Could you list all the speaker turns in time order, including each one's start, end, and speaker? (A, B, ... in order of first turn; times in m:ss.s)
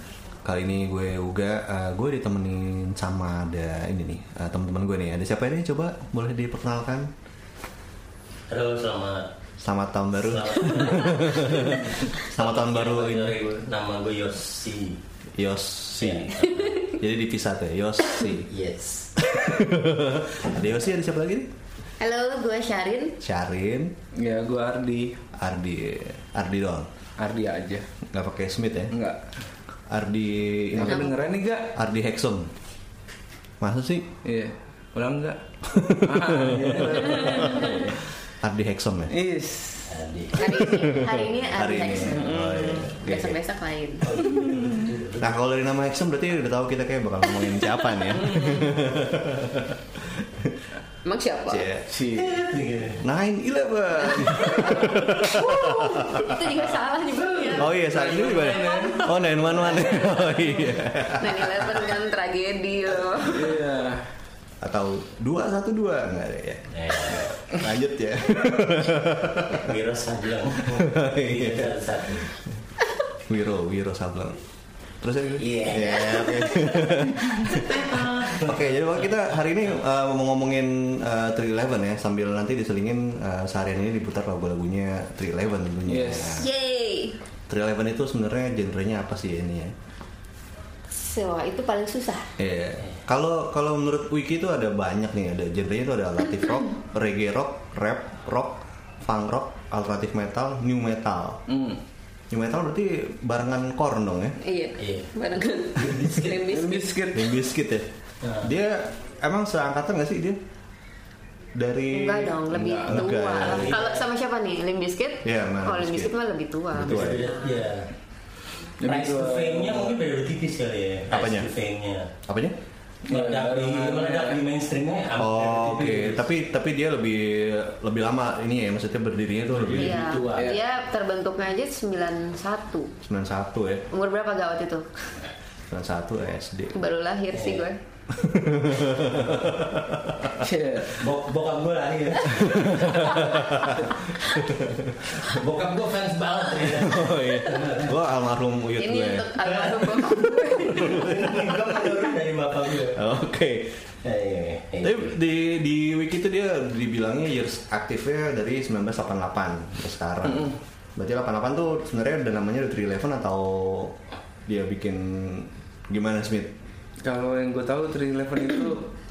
0:00.4-0:07.1 A
0:08.5-0:09.3 B
0:09.6-0:13.4 A
0:10.2-0:15.0 B
0:15.4-0:18.5 A
0:16.0-0:16.6 B
0:16.5-0:16.9 C
0:18.5-0:19.2 B
0:19.4-0:21.5 A
0:22.0-0:23.2 C
0:23.2-0:23.9 A
0:24.2-0:25.2 D
0:25.3-0:26.9 A
0:27.2-0:27.9 D
0:28.1-0:28.9 A
0:28.9-0:29.2 D
0:29.9-0:31.1 A
0:30.7-0:31.7 D
0:30.9-0:31.2 C
0:31.7-0:32.5 A
0:33.6-0:34.1 A
0:34.2-0:38.0 D
0:35.7-0:39.1 A
0:37.4-0:37.7 C
0:39.1-0:40.7 D
0:39.9-0:40.7 B
0:40.4-0:44.2 C
0:41.0-0:43.4 A
0:42.0-0:42.9 D
0:44.0-0:45.4 B
0:44.3-0:44.8 D
0:45.2-0:50.6 A
0:47.3-0:48.3 C
0:48.2-0:48.6 D
0:51.0-0:51.7 C
0:51.5-0:51.9 A
0:51.9-0:52.5 D
0:52.1-0:53.0 B
0:53.0-0:56.4 A
0:54.0-0:57.8 C
0:57.5-0:59.6 D
0:57.6-1:01.9 A
0:57.9-0:58.8 B
0:58.6-0:59.1 C
0:59.7-1:03.6 C
1:03.2-1:04.1 D
1:04.6-1:09.7 A
1:06.7-1:07.6 B
1:09.6-1:12.4 B
1:10.7-1:12.2 A
1:13.3-1:14.4 A
1:15.0-1:26.5 A
1:15.4-1:19.5 B
1:16.1-1:16.9 C
1:17.6-1:17.9 C
1:25.9-1:26.4 D
1:26.4-1:27.2 C
1:27.5-1:29.7 A
1:30.9-1:32.3 C
1:32.4-1:41.4 A
1:41.5-1:41.8 D
1:42.3-1:44.4 A
1:44.4-1:46.9 C
1:44.8-1:46.5 B
1:46.4-1:47.4 D
1:47.1-1:47.9 A
1:48.2-1:48.5 B
1:48.4-1:50.4 A
1:51.6-1:53.7 A
1:51.9-1:57.3 C
1:52.5-1:53.2 D
1:53.3-1:54.0 B
1:55.2-1:56.1 A
1:56.7-1:57.3 A
1:56.8-1:57.9 B
1:58.8-2:00.0 D
1:58.8-2:02.1 B
2:01.1-2:01.5 A
2:02.2-2:02.6 A
2:03.1-2:04.4 D
2:03.1-2:06.2 B
2:05.2-2:10.0 A
2:09.5-2:10.6 B
2:09.8-2:12.9 C
2:13.0-2:13.8 A
2:13.9-2:14.9 C
2:15.7-2:16.8 A
2:16.8-2:17.8 C
2:17.3-2:17.6 B
2:18.1-2:20.5 A
2:20.4-2:20.9 D
2:21.0-2:23.1 B
2:22.3-2:25.4 A
2:22.9-2:24.4 C
2:25.1-2:28.0 B
2:26.6-2:29.3 A
2:28.8-2:31.2 C
2:29.4-2:33.0 B
2:30.8-2:31.3 A
2:32.9-2:33.8 A
2:34.0-2:35.1 B
2:34.8-2:46.5 A
2:40.2-2:40.6 D
2:47.0-2:48.9 D